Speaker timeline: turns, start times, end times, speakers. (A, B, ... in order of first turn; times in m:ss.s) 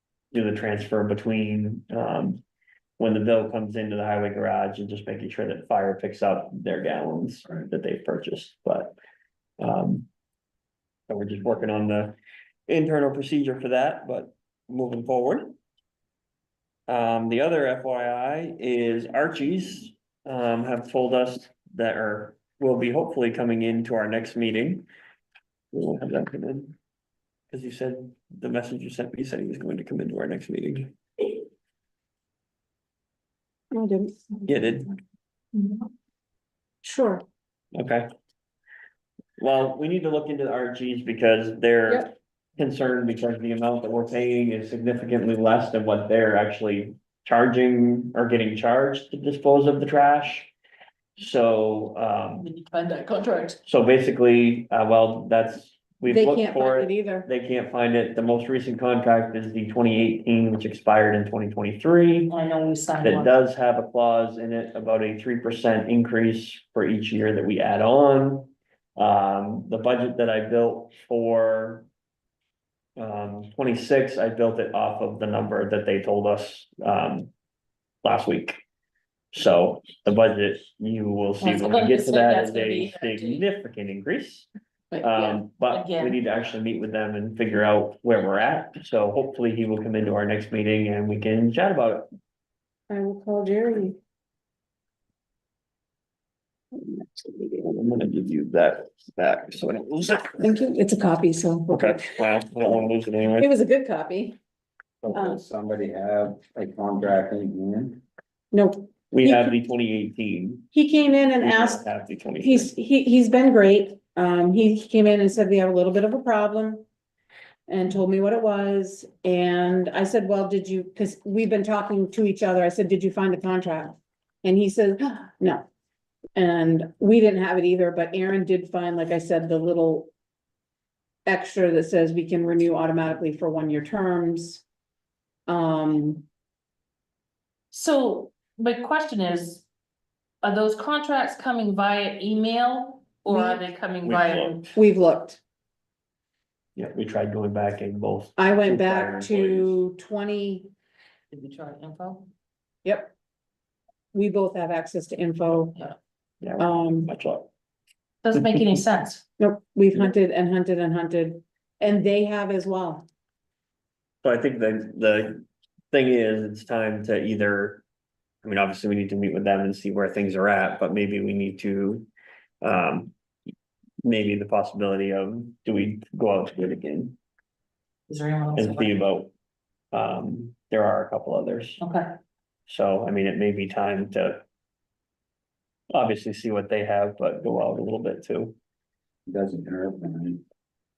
0:00.3-0:02.4 A
0:03.0-0:09.0 A
0:09.6-0:10.1 A
0:11.1-0:12.2 A
0:12.7-0:15.6 A
0:16.9-0:24.9 A
0:25.7-0:26.8 A
0:27.5-0:31.3 A
0:33.7-0:34.4 B
0:34.5-0:34.9 A
0:36.8-0:37.2 B
0:37.7-0:38.1 A
0:39.4-0:50.5 A
0:51.2-0:52.5 A
0:52.4-0:53.6 C
0:53.7-1:02.3 A
0:56.1-0:57.3 B
1:02.3-1:03.3 C
1:03.0-1:11.9 A
1:13.0-1:17.3 A
1:18.0-1:18.6 A
1:19.3-1:24.5 A
1:21.4-1:23.4 C
1:24.9-1:26.2 C
1:25.0-1:32.1 A
1:32.9-1:34.0 B
1:36.7-1:37.8 B
1:37.7-1:40.4 A
1:40.4-1:42.0 B
1:41.7-1:43.5 A
1:43.4-1:44.4 B
1:45.0-1:48.0 D
1:45.1-1:45.4 B
1:48.5-1:49.6 B
1:49.1-1:50.7 A
1:50.7-1:51.8 B
1:51.4-1:52.7 A
1:52.4-1:56.8 B
1:57.7-2:05.6 B
2:06.4-2:10.1 B
2:11.3-2:14.6 B
2:15.5-2:16.2 B
2:17.7-2:19.6 C
2:20.4-2:24.6 C
2:23.3-2:23.6 B
2:24.0-2:24.7 A
2:24.8-2:25.4 B
2:26.8-2:29.8 A
2:28.4-2:30.7 B
2:31.3-2:32.3 C
2:32.8-2:33.1 B
2:34.1-2:35.8 B
2:36.4-2:37.5 A
2:36.6-2:37.1 B
2:38.2-2:39.2 C
2:39.4-2:43.0 B
2:44.2-2:47.8 A
2:48.4-2:52.1 A
2:52.6-2:53.1 A
2:54.0-2:57.2 A
2:58.1-2:59.0 C
2:58.6-2:59.3 A
2:59.9-3:01.8 A
3:01.8-3:02.1 C
3:02.7-3:04.4 A
3:05.9-3:08.6 A
3:09.3-3:10.4 D